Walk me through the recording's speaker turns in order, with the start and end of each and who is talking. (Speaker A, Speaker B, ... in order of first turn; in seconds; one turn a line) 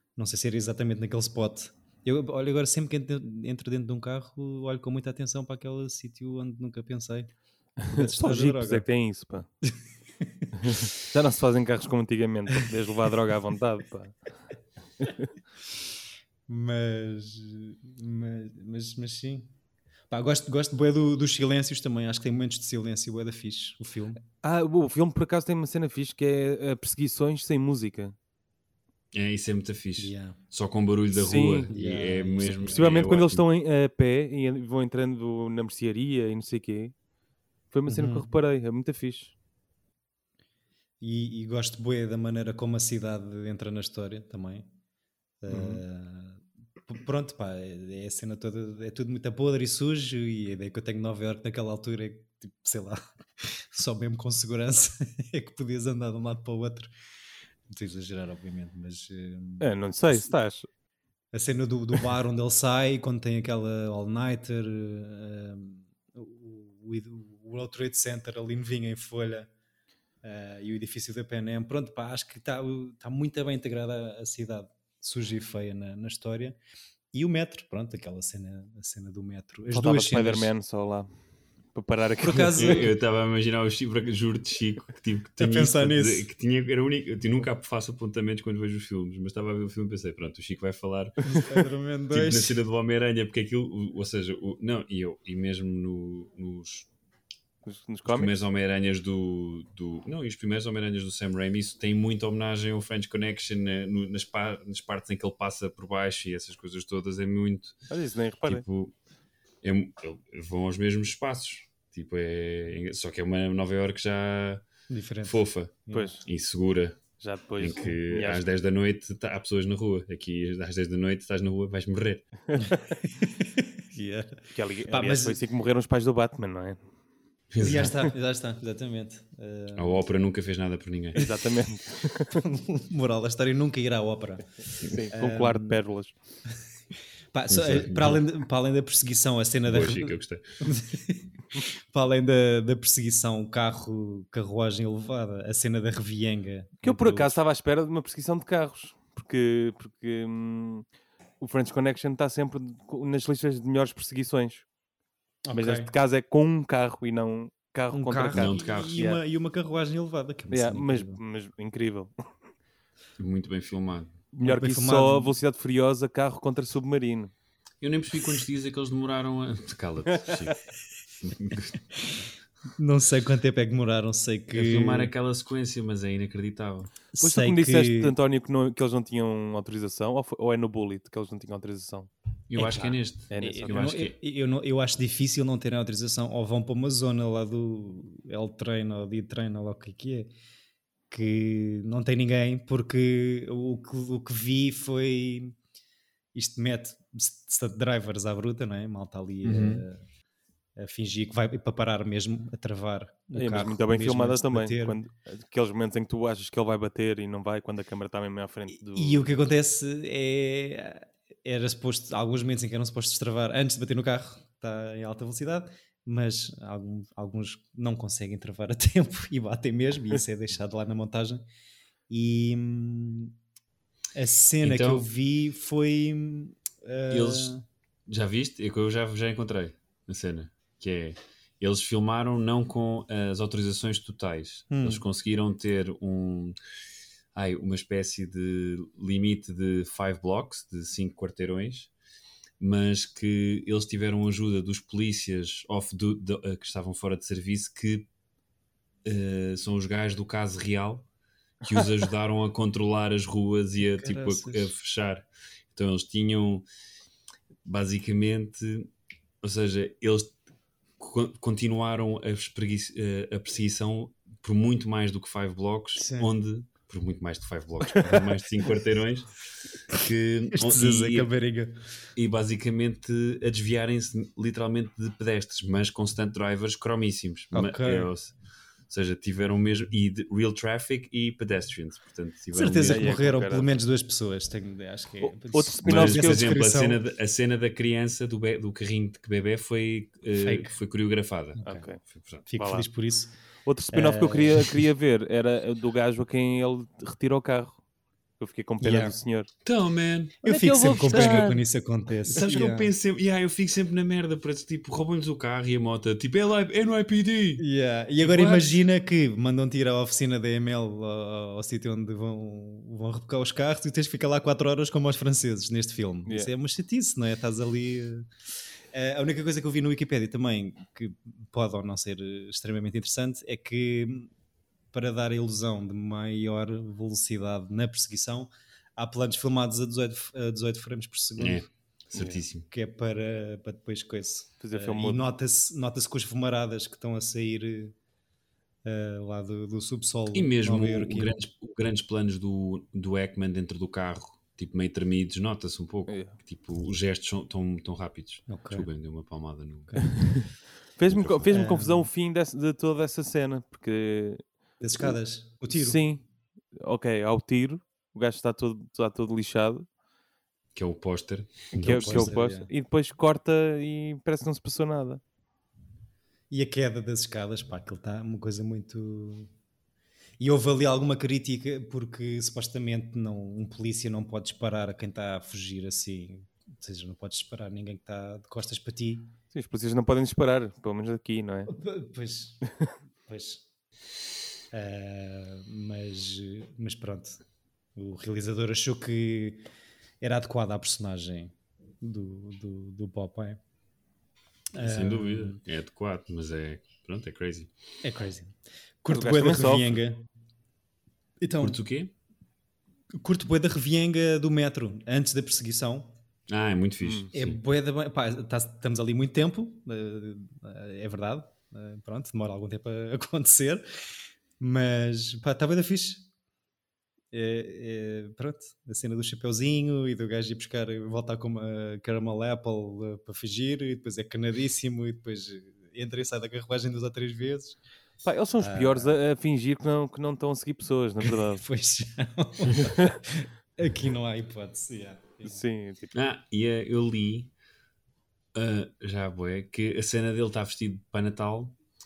Speaker A: 0.2-7.3
Speaker B: 7.8-9.5
Speaker A: 7.9-8.8
Speaker A: 9.7-10.8
Speaker B: 10.6-14.2
Speaker B: 15.0-15.3
Speaker A: 16.5-19.5
Speaker A: 20.1-24.2
Speaker B: 24.4-28.2
Speaker C: 29.1-33.4
Speaker A: 30.0-30.4
Speaker B: 31.1-31.7
Speaker A: 31.7-33.1
Speaker B: 32.7-36.9
Speaker B: 37.7-39.3
Speaker A: 37.9-38.3
Speaker A: 41.0-44.7
Speaker A: 45.4-56.9
Speaker B: 45.5-45.8
Speaker A: 57.7-60.2
Speaker B: 59.6-60.7
Speaker A: 61.3-69.5
Speaker A: 70.2-76.6
Speaker A: 77.1-80.5
Speaker B: 79.7-81.1
Speaker B: 81.7-82.9
Speaker A: 82.2-82.9
Speaker C: 82.6-91.5
Speaker A: 85.4-86.3
Speaker A: 91.2-92.6
Speaker C: 92.1-96.9
Speaker B: 97.7-98.3
Speaker C: 98.1-107.8
Speaker B: 107.9-108.7
Speaker C: 108.5-108.9
Speaker C: 109.6-114.7
Speaker A: 114.9-116.1
Speaker C: 115.2-117.0
Speaker B: 115.9-116.2
Speaker B: 117.2-118.4
Speaker C: 117.6-122.3
Speaker A: 122.6-125.4
Speaker B: 124.5-126.8
Speaker C: 127.5-128.0
Speaker A: 127.6-130.0
Speaker C: 129.8-131.2
Speaker B: 131.2-132.4
Speaker A: 132.3-135.8
Speaker B: 134.8-136.1
Speaker A: 137.3-147.3
Speaker C: 137.5-138.2
Speaker C: 139.7-140.4
Speaker B: 146.8-150.8
Speaker B: 151.4-154.7
Speaker A: 155.4-155.9
Speaker B: 155.5-159.2
Speaker A: 157.9-161.2
Speaker C: 158.3-159.0
Speaker B: 160.5-162.1
Speaker C: 163.2-164.2
Speaker B: 164.3-167.3
Speaker A: 164.4-165.4
Speaker C: 167.8-170.6
Speaker C: 171.1-171.8
Speaker A: 172.8-175.1
Speaker C: 174.5-176.9
Speaker A: 177.1-178.2
Speaker B: 177.2-183.8
Speaker C: 182.5-184.1
Speaker A: 182.6-190.3
Speaker A: 191.1-195.6
Speaker A: 196.3-200.0
Speaker C: 199.4-199.8
Speaker A: 200.8-205.0
Speaker B: 203.3-209.3
Speaker A: 208.8-221.4
Speaker A: 222.1-223.3
Speaker A: 224.2-227.6
Speaker C: 224.6-225.1
Speaker C: 227.1-227.5
Speaker C: 228.1-236.6
Speaker A: 234.7-235.0
Speaker C: 237.3-241.9
Speaker C: 242.6-248.1
Speaker C: 249.0-251.1
Speaker C: 251.6-256.7
Speaker A: 253.8-254.7
Speaker C: 257.6-258.9
Speaker C: 259.4-260.4
Speaker C: 261.0-271.3
Speaker A: 266.0-266.3
Speaker A: 270.5-271.8
Speaker C: 272.2-278.3
Speaker A: 277.5-278.1
Speaker C: 278.9-283.1
Speaker A: 282.5-287.0
Speaker B: 282.9-283.8
Speaker B: 285.2-286.5
Speaker C: 285.9-292.4
Speaker A: 290.4-290.8
Speaker A: 291.6-291.9
Speaker B: 291.6-292.0
Speaker A: 292.5-293.3
Speaker B: 292.6-292.9
Speaker B: 293.6-297.8
Speaker A: 293.9-294.8
Speaker B: 298.4-299.5
Speaker A: 298.8-299.2
Speaker C: 299.6-300.4
Speaker A: 300.4-302.9
Speaker B: 300.4-301.6
Speaker C: 301.1-301.5
Speaker C: 302.3-307.6
Speaker A: 307.6-318.3
Speaker C: 308.2-308.8
Speaker A: 318.9-324.3
Speaker A: 324.9-331.7
Speaker C: 331.4-332.7
Speaker B: 332.1-332.4
Speaker A: 332.7-337.9
Speaker B: 334.6-335.2
Speaker A: 338.9-341.4
Speaker C: 340.3-350.4
Speaker B: 346.1-346.4
Speaker A: 348.5-348.9
Speaker B: 350.0-355.2
Speaker C: 351.1-351.5
Speaker A: 351.5-352.1
Speaker A: 354.8-356.0
Speaker B: 355.7-359.9
Speaker C: 360.8-362.4
Speaker B: 361.7-365.2
Speaker A: 361.8-362.7
Speaker A: 366.5-369.5
Speaker A: 370.4-379.4
Speaker B: 379.5-381.7
Speaker A: 381.7-382.7
Speaker A: 383.3-383.6
Speaker A: 384.7-387.4
Speaker A: 388.0-389.7
Speaker A: 390.2-393.6
Speaker A: 394.7-395.6
Speaker C: 394.8-397.7
Speaker A: 398.0-400.2
Speaker B: 399.1-400.0
Speaker A: 401.4-401.8
Speaker C: 401.6-402.1
Speaker A: 403.2-406.1
Speaker C: 406.5-407.6
Speaker B: 407.0-407.3
Speaker A: 407.3-413.9
Speaker A: 414.6-416.3
Speaker A: 417.3-427.8
Speaker B: 428.2-431.6
Speaker A: 428.6-429.1
Speaker A: 431.3-435.6
Speaker B: 432.9-433.2
Speaker B: 435.4-436.1
Speaker C: 436.1-437.5
Speaker C: 438.5-441.8